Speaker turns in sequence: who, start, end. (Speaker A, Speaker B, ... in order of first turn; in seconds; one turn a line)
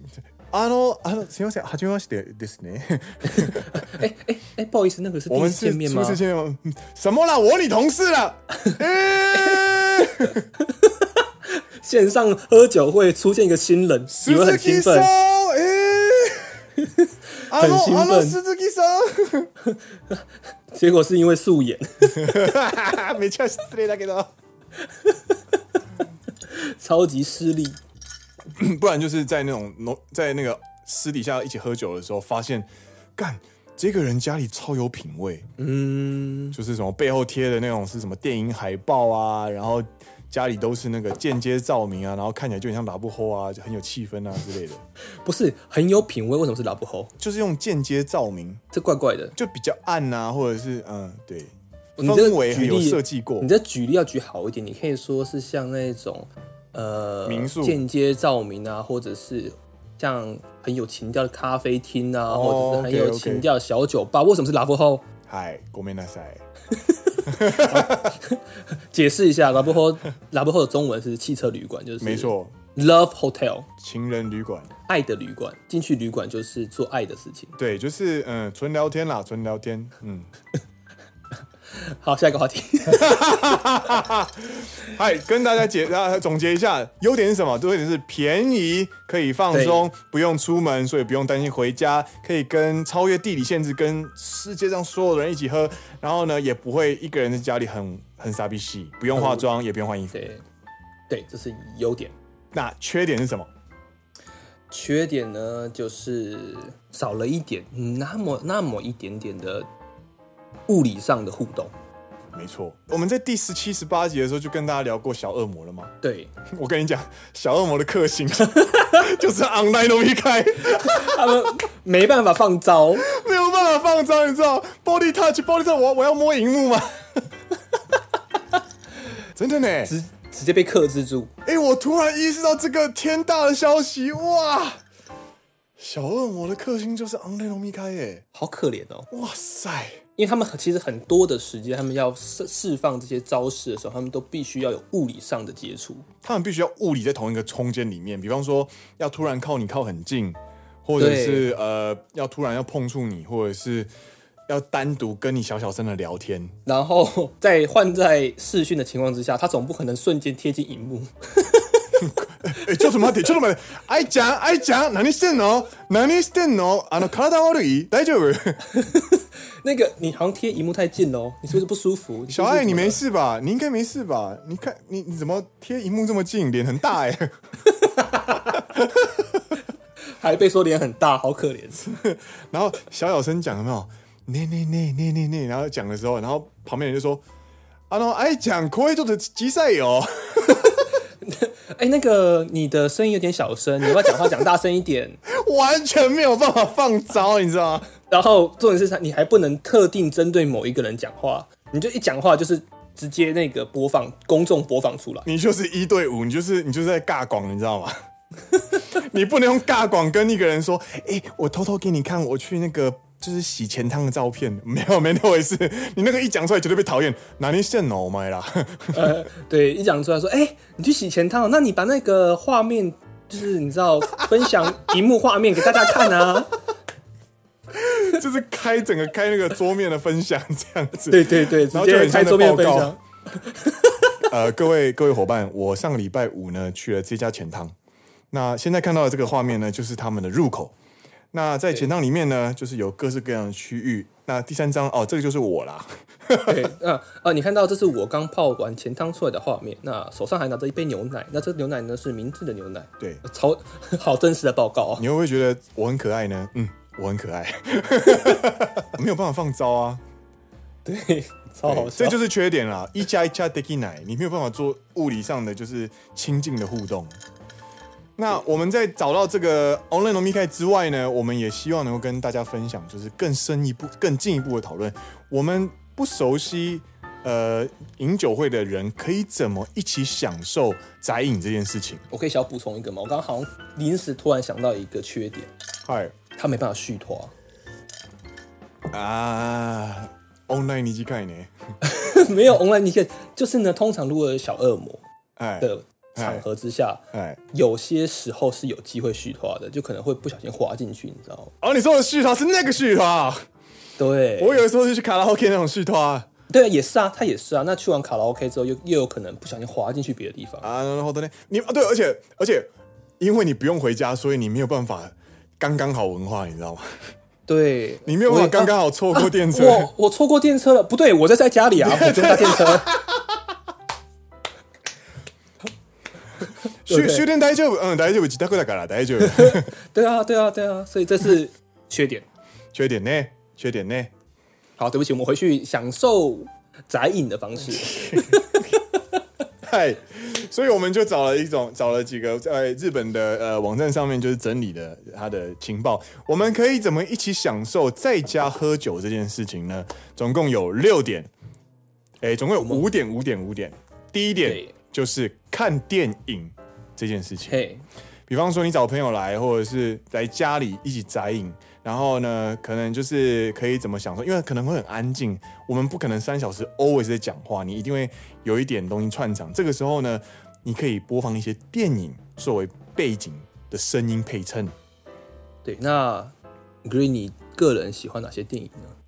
Speaker A: 0.5-3.9
Speaker B: 3.4-6.2
Speaker A: 5.3-10.5
Speaker B: 10.6-15.1
Speaker A: 14.1-16.6
Speaker B: 16.8-18.4
Speaker A: 17.5-19.5
Speaker B: 19.6-22.5
Speaker A: 22.0-24.3
Speaker B: 24.8-25.6
Speaker B: 26.4-27.8
Speaker A: 28.6-35.5
Speaker B: 35.6-36.6
Speaker A: 36.5-44.8
Speaker B: 45.2-47.1
Speaker A: 47.2-48.6
Speaker B: 48.7-49.4
Speaker A: 49.4-53.5
Speaker B: 52.0-65.1
Speaker A: 57.3-57.8
Speaker A: 62.3-63.5
Speaker A: 65.3-66.4
Speaker B: 66.7-73.7
Speaker A: 67.2-68.2
Speaker A: 72.0-72.5
Speaker A: 73.8-74.7
Speaker B: 74.9-77.5
Speaker A: 77.6-80.3
Speaker B: 81.7-83.3
Speaker A: 82.9-100.2
Speaker B: 89.5-89.9
Speaker B: 99.1-99.5
Speaker B: 100.1-100.4
Speaker B: 101.1-102.1
Speaker A: 102.5-103.5
Speaker B: 104.7-109.7
Speaker B: 110.7-111.7
Speaker A: 112.3-115.9
Speaker B: 116.0-116.3
Speaker A: 116.5-121.5
Speaker B: 118.6-118.9
Speaker B: 120.7-123.0
Speaker A: 123.0-127.2
Speaker A: 129.3-129.9
Speaker B: 129.9-131.3
Speaker A: 131.4-134.8
Speaker A: 135.8-138.2
Speaker B: 138.3-139.1
Speaker A: 139.1-140.0
Speaker B: 140.2-146.1
Speaker A: 146.2-153.9
Speaker B: 151.0-151.5
Speaker A: 154.5-156.6
Speaker B: 156.7-162.0
Speaker A: 162.0-168.7
Speaker B: 168.7-173.0
Speaker A: 172.3-177.3
Speaker B: 177.7-178.6
Speaker A: 178.5-179.4
Speaker B: 180.1-181.8
Speaker A: 181.8-187.2
Speaker A: 187.9-190.9
Speaker B: 191.2-195.2
Speaker A: 195.3-197.9
Speaker B: 198.0-205.3
Speaker A: 205.2-208.0
Speaker A: 208.7-219.3
Speaker B: 218.9-226.5
Speaker A: 227.7-233.0
Speaker B: 231.1-234.2
Speaker A: 234.2-237.7
Speaker A: 238.3-240.7
Speaker A: 241.3-246.7
Speaker B: 246.4-255.1
Speaker A: 255.0-260.0
Speaker B: 260.9-262.2
Speaker A: 261.6-267.1
Speaker A: 268.2-282.0
Speaker B: 282.1-285.5
Speaker A: 285.9-286.2
Speaker B: 286.3-287.3
Speaker A: 288.9-291.5
Speaker B: 291.8-295.0
Speaker A: 295.4-296.4
Speaker B: 295.6-301.5
Speaker A: 297.1-297.4
Speaker A: 301.6-303.4
Speaker B: 304.0-304.6
Speaker A: 304.4-306.3
Speaker B: 306.5-310.7
Speaker A: 310.6-312.7
Speaker A: 313.2-317.0
Speaker B: 317.5-322.9
Speaker A: 318.1-319.9
Speaker A: 321.8-323.2
Speaker A: 326.9-329.7
Speaker B: 326.9-327.3
Speaker B: 329.2-332.3
Speaker A: 332.7-334.1
Speaker B: 334.8-339.0
Speaker A: 337.7-338.8
Speaker A: 339.6-351.3
Speaker A: 352.2-357.6
Speaker B: 352.6-352.9
Speaker B: 354.4-354.7
Speaker B: 357.5-357.9
Speaker A: 358.3-374.7
Speaker B: 375.6-378.9